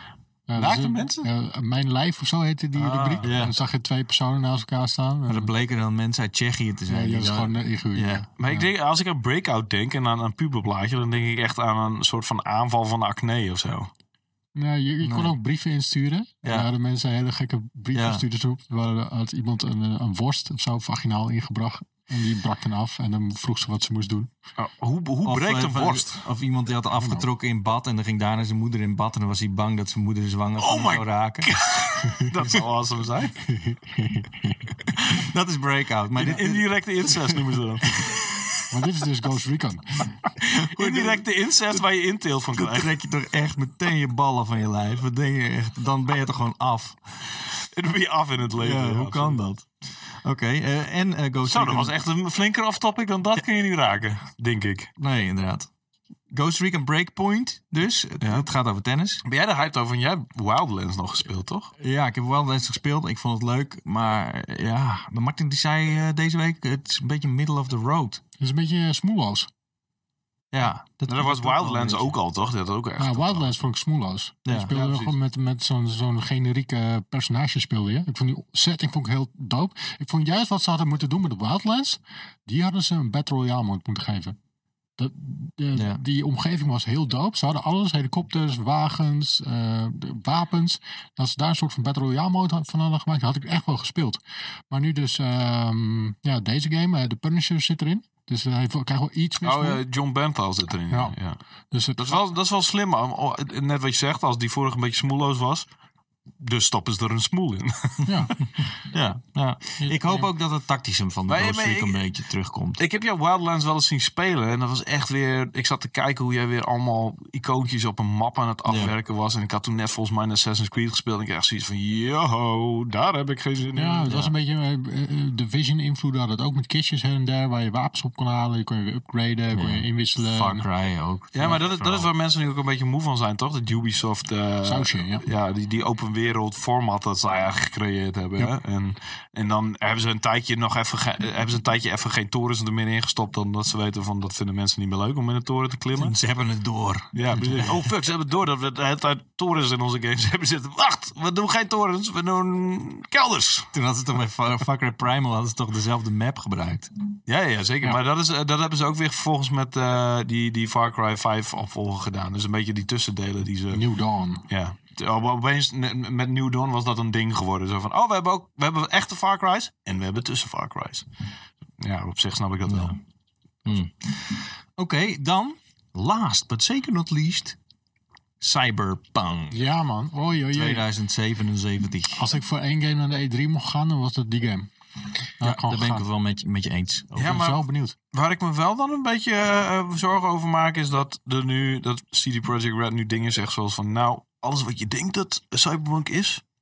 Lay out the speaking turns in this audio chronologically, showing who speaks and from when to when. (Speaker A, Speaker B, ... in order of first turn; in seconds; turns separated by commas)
Speaker A: 0.5-5.5, Speaker B: 0.6-1.3, Speaker B: 2.8-3.3, Speaker C: 3.2-3.5, Speaker C: 5.3-8.3, Speaker A: 6.9-8.7, Speaker B: 8.4-13.9, Speaker A: 14.6-24.3, Speaker C: 15.0-15.3, Speaker C: 17.9-18.2, Speaker B: 24.6-26.3, Speaker C: 25.2-31.5, Speaker B: 30.6-33.4, Speaker A: 32.0-32.3, Speaker A: 33.5-34.7, Speaker C: 35.1-36.7, Speaker B: 36.2-38.2, Speaker C: 37.9-38.5, Speaker A: 38.7-40.1, Speaker B: 40.4-42.9, Speaker C: 40.5-41.2, Speaker C: 42.6-47.0, Speaker B: 47.6-49.5, Speaker C: 48.6-51.9, Speaker B: 51.4-54.9, Speaker C: 55.0-55.7, Speaker C: 56.3-59.2, Speaker B: 58.2-58.5, Speaker B: 59.2-61.7, Speaker C: 61.8-68.2, Speaker A: 68.4-69.5, Speaker C: 70.5-72.2, Speaker B: 71.1-73.5, Speaker A: 73.0-84.4, Speaker C: 74.5-74.7, Speaker B: 74.7-75.2, Speaker A: 85.0-99.8, Speaker C: 85.8-86.0, Speaker B: 99.4-101.4, Speaker A: 100.9-101.2, Speaker A: 101.7-102.2, Speaker B: 102.0-105.7, Speaker B: 106.4-108.6, Speaker A: 108.1-108.3, Speaker C: 108.9-112.8, Speaker A: 109.8-110.3, Speaker B: 111.3-112.1, Speaker B: 112.8-124.1, Speaker C: 118.7-118.9, Speaker A: 123.8-130.7, Speaker C: 124.1-124.3, Speaker C: 129.5-132.1, Speaker B: 131.3-146.1, Speaker A: 134.6-135.3, Speaker C: 145.9-147.8, Speaker B: 147.1-153.7, Speaker C: 153.7-156.9, Speaker B: 157.3-163.9, Speaker A: 163.7-164.5, Speaker B: 164.5-171.1, Speaker B: 171.8-173.0, Speaker C: 172.7-173.0, Speaker C: 173.7-177.6, Speaker C: 178.4-179.6, Speaker A: 179.5-180.9, Speaker C: 180.5-182.2, Speaker A: 182.2-184.7, Speaker A: 185.4-186.1, Speaker C: 185.4-187.4, Speaker B: 187.2-196.4, Speaker A: 187.2-188.0